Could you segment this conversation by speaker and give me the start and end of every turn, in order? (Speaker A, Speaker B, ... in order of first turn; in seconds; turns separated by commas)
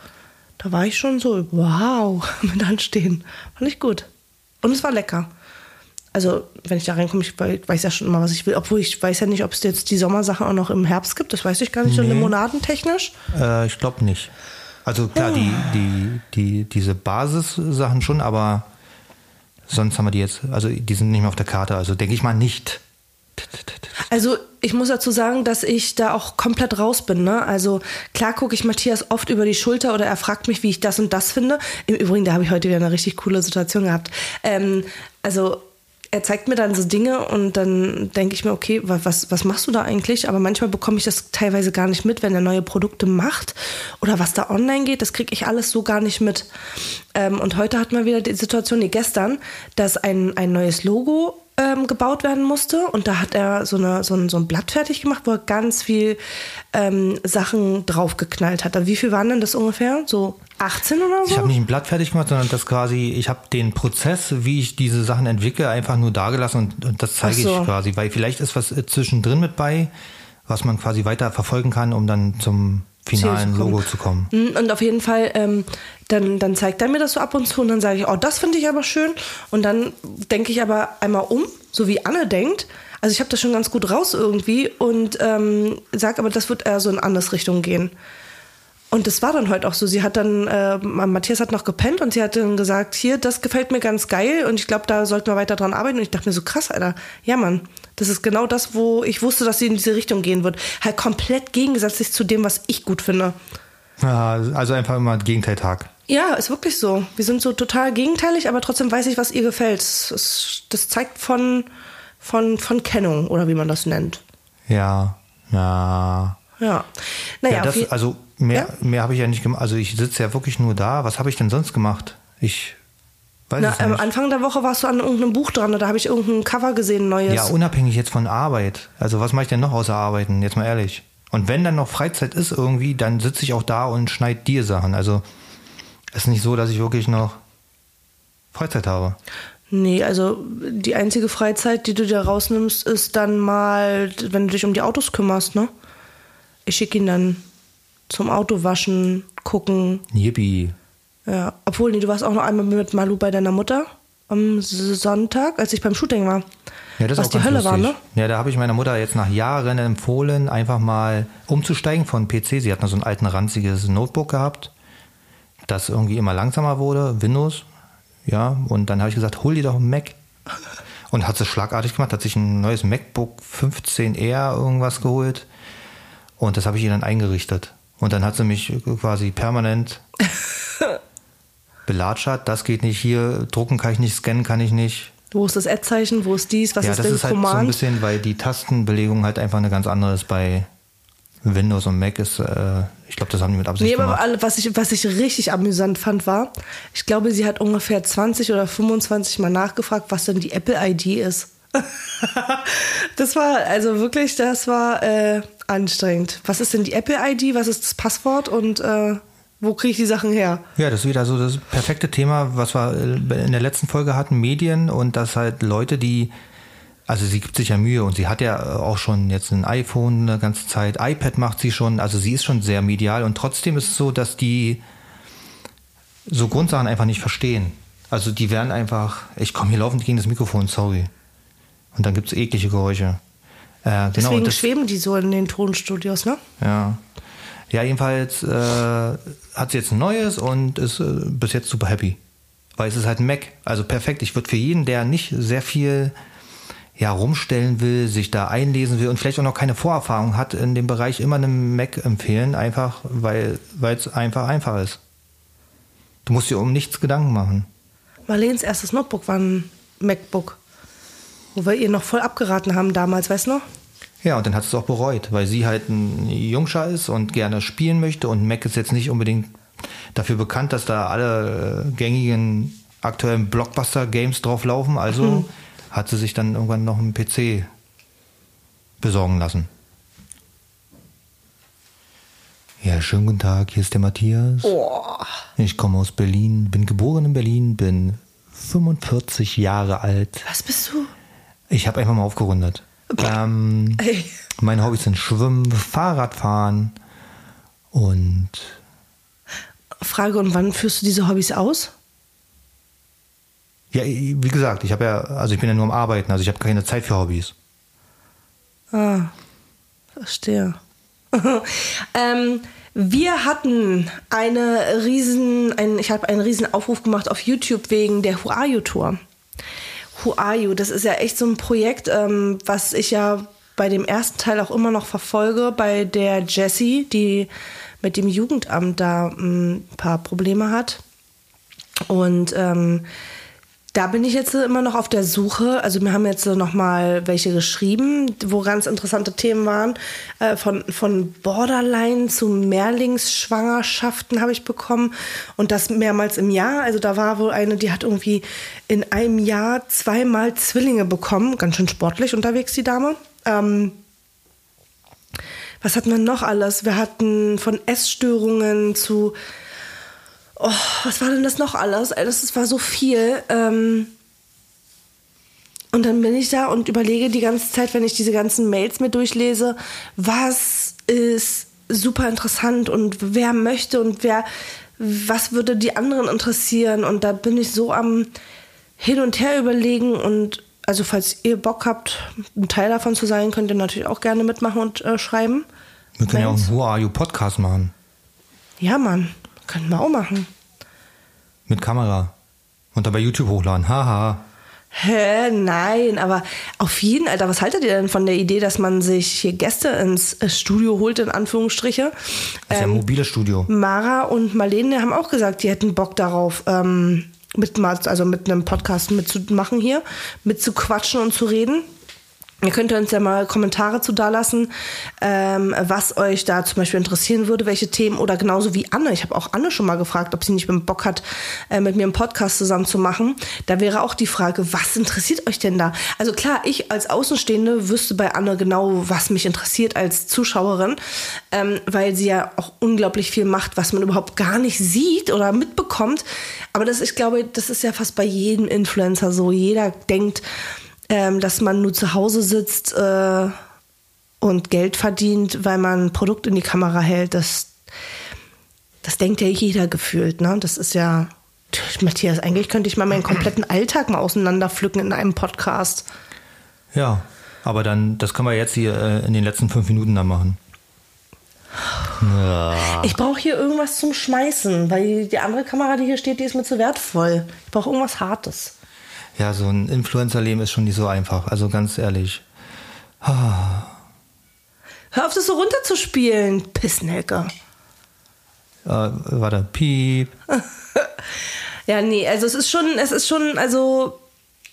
Speaker A: 0.6-4.1, Speaker A: 4.6-5.3, Speaker A: 6.1-13.1, Speaker B: 11.8-12.3, Speaker B: 13.3-14.3, Speaker B: 14.8-18.7, Speaker A: 15.2-15.6, Speaker B: 19.7-22.8, Speaker B: 23.4-23.9, Speaker A: 24.0-46.5, Speaker A: 47.1-56.2, Speaker A: 56.7-61.5, Speaker B: 61.2-69.9, Speaker A: 67.2-67.7, Speaker B: 70.5-74.3, Speaker A: 73.1-87.9, Speaker A: 88.9-103.4, Speaker B: 104.0-105.9, Speaker A: 106.1-111.7, Speaker A: 112.2-114.2, Speaker B: 114.7-116.4, Speaker A: 116.6-117.9, Speaker B: 117.5-122.8, Speaker B: 123.5-124.0, Speaker A: 123.6-127.5, Speaker B: 127.3-135.2, Speaker B: 136.1-137.4, Speaker B: 138.5-139.2, Speaker A: 139.7-145.7, Speaker A: 146.7-147.4, Speaker A: 148.1-150.0, Speaker B: 150.1-150.8, Speaker A: 151.2-156.5, Speaker B: 157.0-164.7, Speaker A: 157.2-158.0, Speaker B: 165.7-167.7, Speaker B: 168.2-170.2, Speaker B: 171.1-175.5, Speaker B: 176.4-180.0, Speaker B: 181.9-185.1, Speaker A: 185.3-187.8, Speaker B: 186.8-190.7, Speaker B: 191.4-194.2, Speaker A: 193.8-210.6, Speaker B: 210.8-216.3, Speaker B: 217.1-224.8, Speaker B: 226.3-231.1, Speaker B: 231.9-233.2, Speaker B: 233.8-234.6, Speaker A: 234.1-236.4, Speaker B: 236.6-237.0, Speaker B: 237.7-242.2, Speaker B: 242.8-246.1, Speaker B: 246.9-255.0, Speaker B: 256.2-257.7, Speaker A: 258.3-260.6, Speaker A: 261.5-263.6, Speaker B: 264.2-269.6, Speaker B: 270.1-277.7, Speaker B: 279.0-279.7, Speaker B: 282.8-284.8, Speaker A: 284.6-285.3, Speaker B: 285.6-290.4, Speaker A: 290.4-291.1, Speaker B: 291.7-296.9, Speaker A: 294.0-294.3, Speaker B: 297.9-298.8, Speaker A: 300.0-301.9, Speaker B: 303.9-307.5, Speaker A: 308.9-309.3, Speaker A: 310.1-310.8, Speaker A: 311.3-319.2, Speaker A: 320.1-327.5, Speaker A: 328.0-331.0, Speaker A: 332.1-333.1, Speaker A: 333.9-354.0, Speaker A: 355.8-359.4, Speaker A: 360.6-364.1, Speaker A: 365.9-378.3, Speaker A: 379.0-385.7, Speaker B: 386.2-387.9, Speaker A: 386.3-386.7, Speaker A: 388.8-390.5, Speaker B: 391.7-392.3, Speaker B: 392.9-394.4, Speaker A: 394.9-403.0, Speaker B: 402.7-403.7, Speaker A: 403.7-411.9, Speaker A: 412.6-431.0, Speaker A: 431.5-440.4, Speaker A: 441.1-443.6, Speaker A: 444.4-447.8, Speaker A: 449.0-456.1, Speaker B: 456.9-460.6, Speaker B: 462.2-463.1, Speaker A: 462.9-468.7, Speaker B: 469.4-472.4, Speaker B: 473.2-474.0, Speaker A: 475.1-477.5, Speaker B: 478.8-480.3, Speaker A: 480.5-481.1, Speaker A: 481.9-484.2